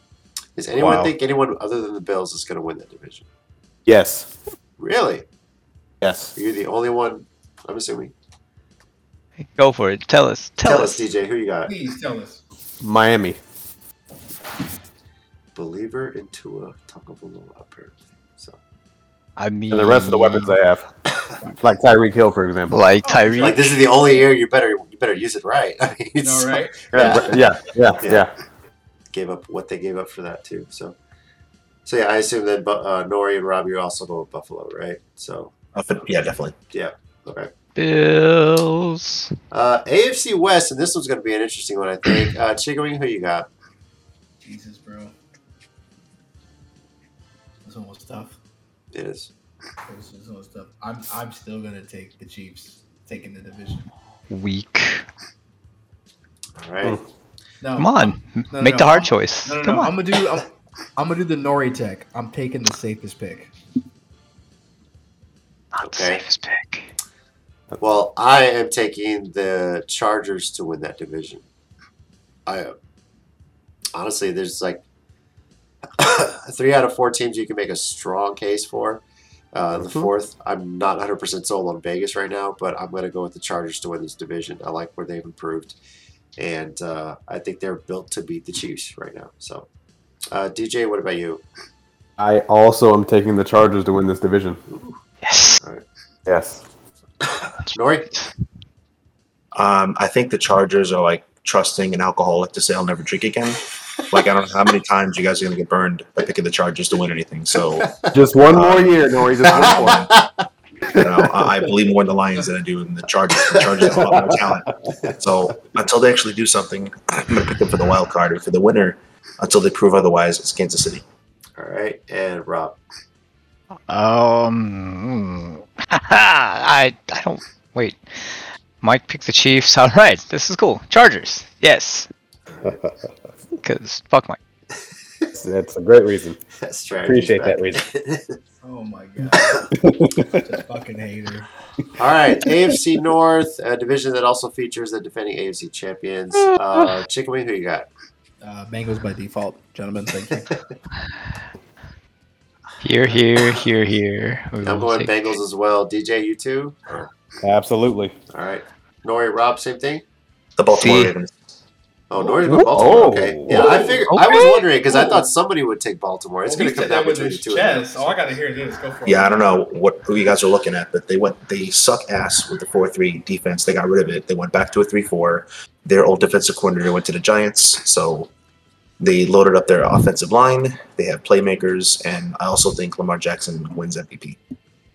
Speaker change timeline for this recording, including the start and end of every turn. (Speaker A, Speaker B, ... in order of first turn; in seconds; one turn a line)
Speaker A: 0.6-3.2
Speaker B: 0.7-1.1
Speaker B: 3.9-4.3
Speaker A: 4.8-5.2
Speaker B: 6.0-6.3
Speaker A: 6.3-8.1
Speaker C: 9.4-11.0
Speaker A: 10.6-11.7
Speaker D: 11.7-12.4
Speaker B: 12.8-13.4
Speaker A: 15.5-18.6
Speaker C: 19.4-20.5
Speaker B: 19.7-20.9
Speaker B: 21.6-22.8
Speaker C: 22.7-23.8
Speaker D: 23.0-24.0
Speaker A: 23.4-27.4
Speaker D: 26.2-27.4
Speaker B: 26.9-28.3
Speaker A: 29.1-30.9
Speaker A: 31.9-35.5
Speaker E: 35.7-36.5
Speaker A: 36.7-37.5
Speaker C: 37.8-39.3
Speaker A: 39.5-43.5
Speaker D: 44.4-45.1
Speaker D: 47.6-48.4
Speaker A: 48.9-49.3
Speaker D: 49.9-53.9
Speaker C: 54.3-55.0
Speaker A: 56.6-57.0
Speaker D: 57.6-63.5
Speaker C: 57.8-60.0
Speaker C: 65.7-66.9
Speaker A: 65.8-66.2
Speaker A: 67.8-71.4
Speaker A: 72.5-72.7
Speaker A: 73.9-74.8
Speaker A: 76.0-79.0
Speaker A: 79.5-85.7
Speaker B: 79.8-80.1
Speaker A: 86.4-89.7
Speaker A: 90.3-91.4
Speaker B: 92.2-94.6
Speaker A: 94.7-95.0
Speaker C: 95.2-95.6
Speaker B: 96.2-96.6
Speaker A: 97.5-98.1
Speaker C: 97.7-98.3
Speaker E: 99.5-107.9
Speaker A: 107.8-108.1
Speaker B: 108.1-110.1
Speaker E: 108.4-110.2
Speaker A: 109.5-110.3
Speaker E: 110.9-121.0
Speaker A: 113.5-113.8
Speaker B: 114.1-115.0
Speaker A: 121.6-122.8
Speaker C: 123.9-132.1
Speaker B: 132.6-132.9
Speaker C: 133.6-134.4
Speaker B: 135.3-136.4
Speaker A: 136.6-138.4
Speaker B: 137.1-137.8
Speaker D: 138.6-139.7
Speaker B: 139.7-140.5
Speaker D: 140.4-141.5
Speaker A: 142.0-147.9
Speaker C: 146.4-146.9
Speaker D: 148.4-150.5
Speaker C: 152.8-155.3
Speaker A: 153.1-153.5
Speaker A: 154.6-157.1
Speaker B: 157.4-158.1
Speaker A: 158.3-160.0
Speaker E: 160.6-161.3
Speaker C: 160.7-161.1
Speaker A: 162.1-168.2
Speaker B: 162.4-163.9
Speaker D: 163.5-165.3
Speaker C: 164.1-164.5
Speaker D: 166.4-169.4
Speaker E: 169.1-178.3
Speaker E: 179.0-184.4